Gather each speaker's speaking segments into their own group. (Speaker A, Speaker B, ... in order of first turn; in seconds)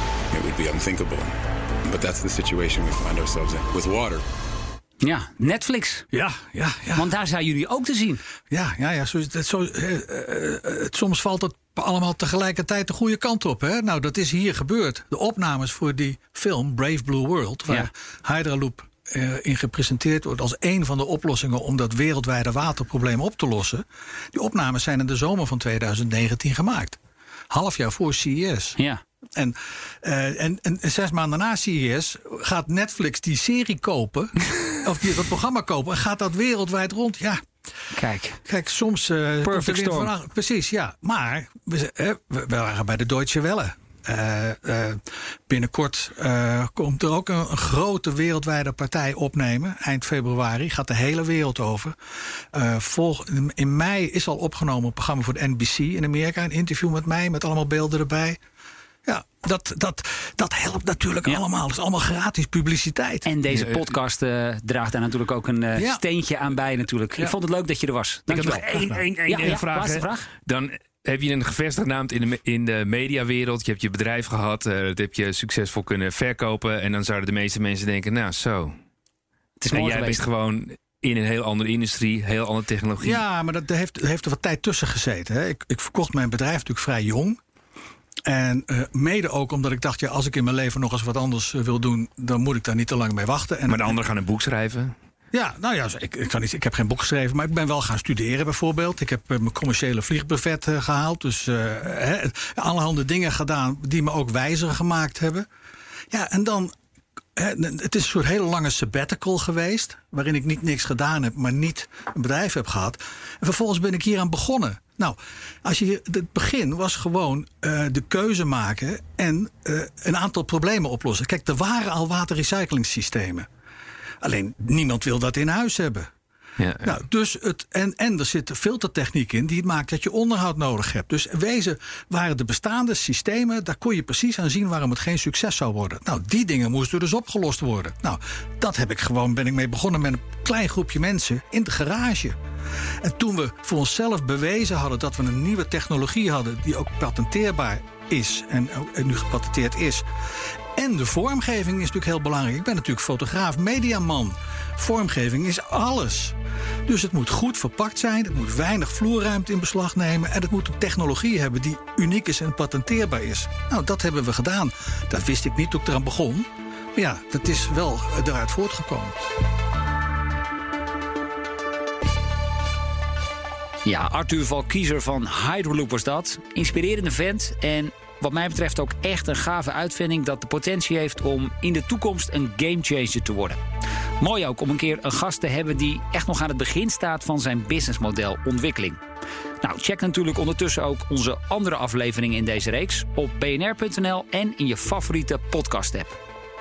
Speaker A: 0.3-4.2
Speaker B: 5.0-6.1, 7.0-8.2, 37.9-38.4, 39.4-40.1, 63.2-70.3, 79.6-80.2, 173.8-183.6, 184.2-189.0, 189.6-196.2
Speaker C: 6.1-7.1, 8.5-27.0, 27.5-28.8, 29.4-37.4, 38.4-58.4, 59.0-63.3, 65.8-66.0, 68.7-69.0, 83.0-87.4, 88.2-94.0, 95.3-105.5, 106.1-106.7, 107.3-123.5, 124.2-126.1, 126.8-142.4, 143.0-150.1, 150.7-169.2
Speaker D: 63.5-63.8, 68.3-78.8, 79.7-83.2, 93.7-94.9, 126.6-127.0